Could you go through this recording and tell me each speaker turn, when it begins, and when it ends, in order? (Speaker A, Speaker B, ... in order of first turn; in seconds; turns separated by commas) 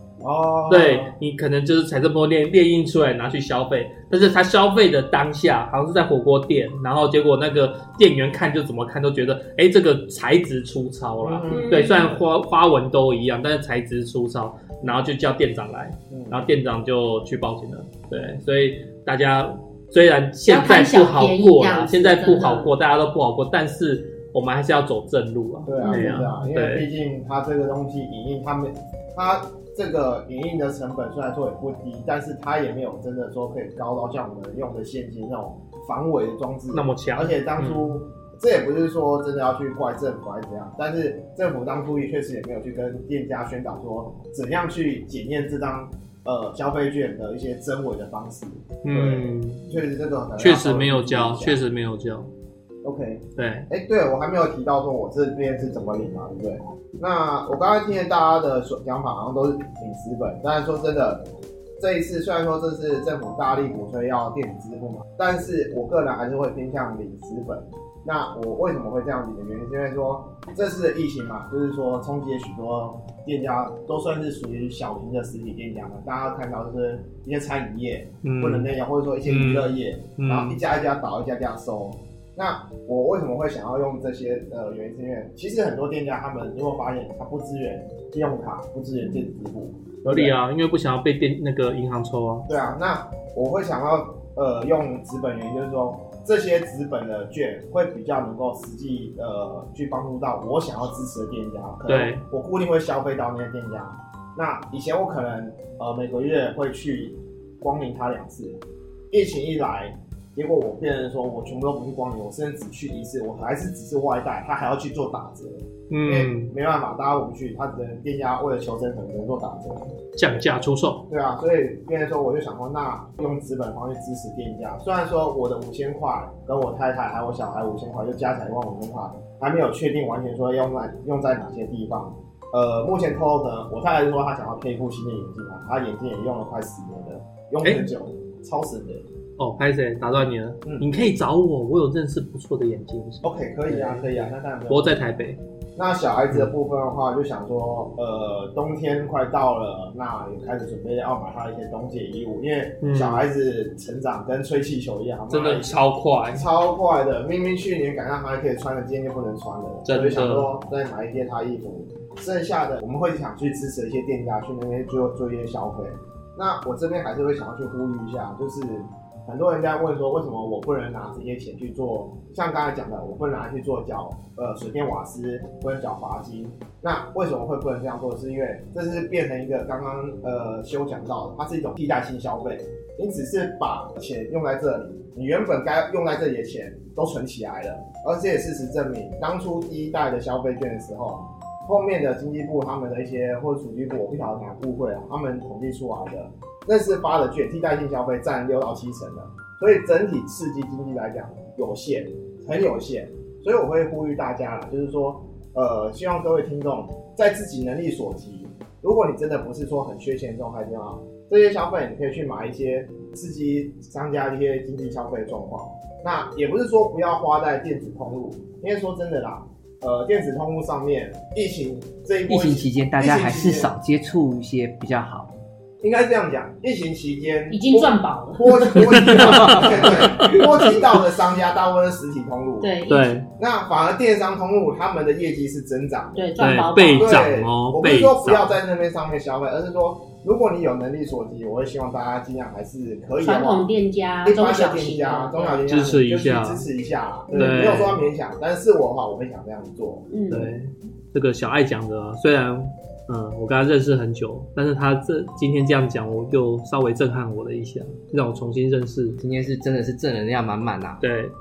Speaker A: 0.2-1.1, Speaker B: 0.7-26.9, Speaker A: 11.2-12.2, Speaker C: 11.5-12.2, Speaker A: 16.1-16.6, Speaker C: 20.5-22.7, Speaker A: 25.7-51.6, Speaker C: 25.8-26.3, Speaker B: 36.7-38.0, Speaker B: 48.8-49.7, Speaker B: 50.4-52.3, Speaker A: 52.8-61.2, Speaker B: 53.4-53.7, Speaker A: 61.8-90.3, Speaker B: 78.2-78.7, Speaker B: 79.2-80.6, Speaker B: 90.0-92.5, Speaker A: 92.5-108.6, Speaker B: 101.9-102.2, Speaker A: 109.1-120.0, Speaker B: 115.9-116.5, Speaker B: 120.2-121.1, Speaker A: 121.1-139.0, Speaker B: 137.6-137.9, Speaker B: 139.4-145.4, Speaker A: 143.2-145.1, Speaker A: 145.8-223.7, Speaker B: 152.8-153.3, Speaker B: 155.3-156.4, Speaker B: 159.9-160.5, Speaker D: 222.3-225.3, Speaker A: 225.8-232.7, Speaker C: 227.5-229.1, Speaker B: 228.7-230.9, Speaker C: 232.6-233.2, Speaker B: 232.9-233.3, Speaker A: 233.4-236.2, Speaker C: 236.2-237.2, Speaker B: 236.4-238.6, Speaker A: 237.0-243.7, Speaker C: 243.2-245.6, Speaker A: 244.2-250.1, Speaker B: 245.7-246.7, Speaker C: 247.3-247.7, Speaker B: 247.3-248.0, Speaker C: 250.1-250.5, Speaker B: 250.3-259.2, Speaker D: 259.2-261.0, Speaker B: 261.0-261.3